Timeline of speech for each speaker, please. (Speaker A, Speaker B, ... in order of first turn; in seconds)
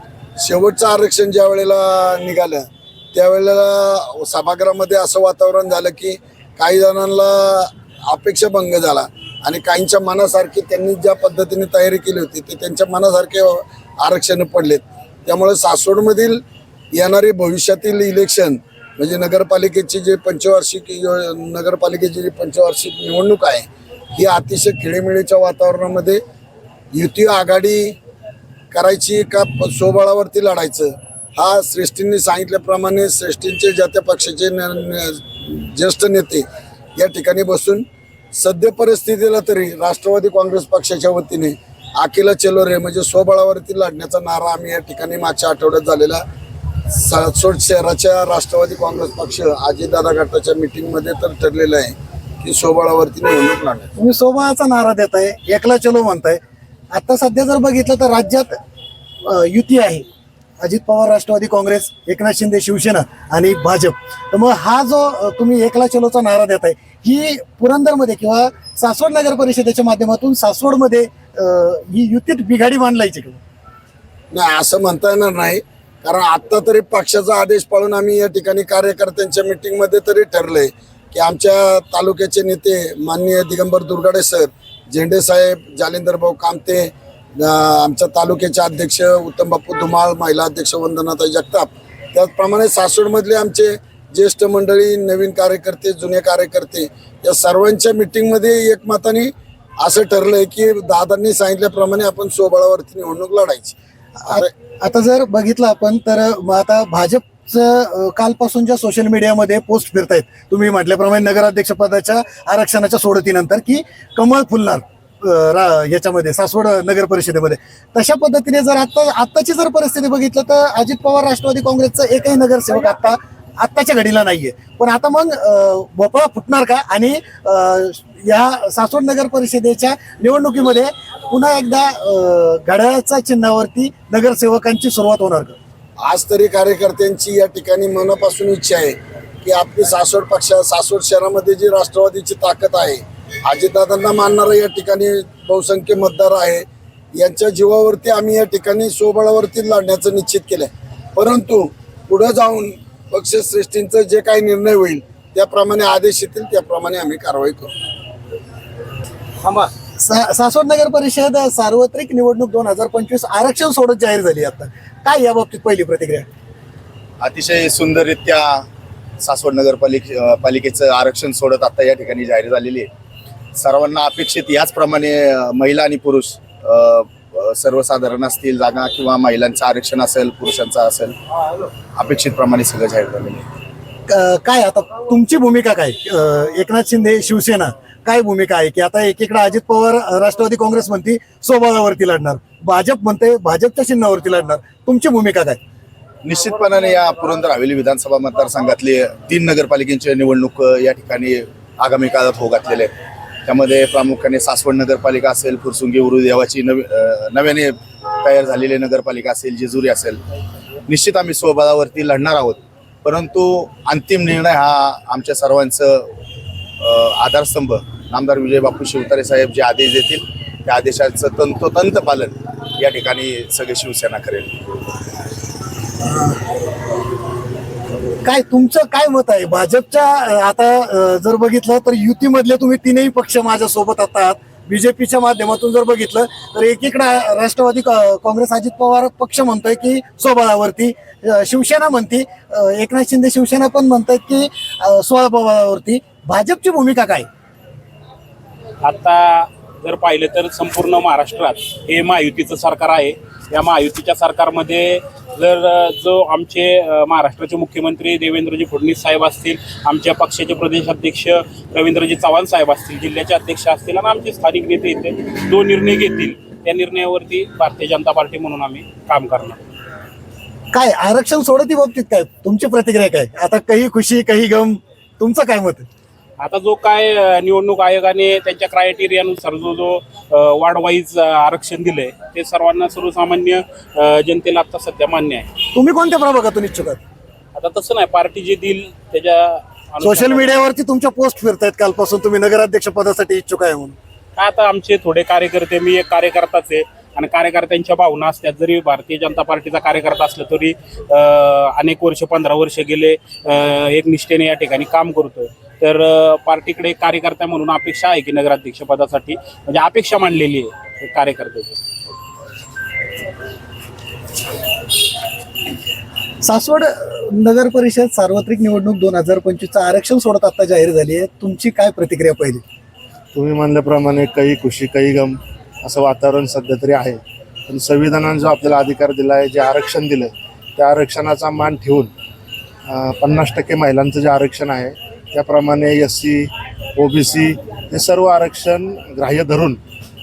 Speaker A: 0.4-16.4, 16.9-26.2, 26.9-28.0, 28.7-36.4, 37.0-46.2, 46.9-53.9, 74.3-104.5, 136.0-157.7
Speaker B: 54.0-56.4, 56.9-58.6, 59.2-60.0, 60.6-73.4, 104.3-135.6, 159.4-166.2, 184.1-195.6, 226.0-226.3, 228.2-247.2, 270.7-275.9, 285.7-287.0, 290.0-293.9, 316.4-322.6
Speaker C: 167.2-168.7, 169.2-172.9, 173.5-181.2, 181.9-183.4, 196.2-202.9, 203.4-210.2, 210.9-216.1, 216.8-224.7
Speaker D: 248.8-269.6, 276.4-285.5, 287.6-290.5, 294.4-311.8
Speaker E: 323.3-332.1, 332.9-339.8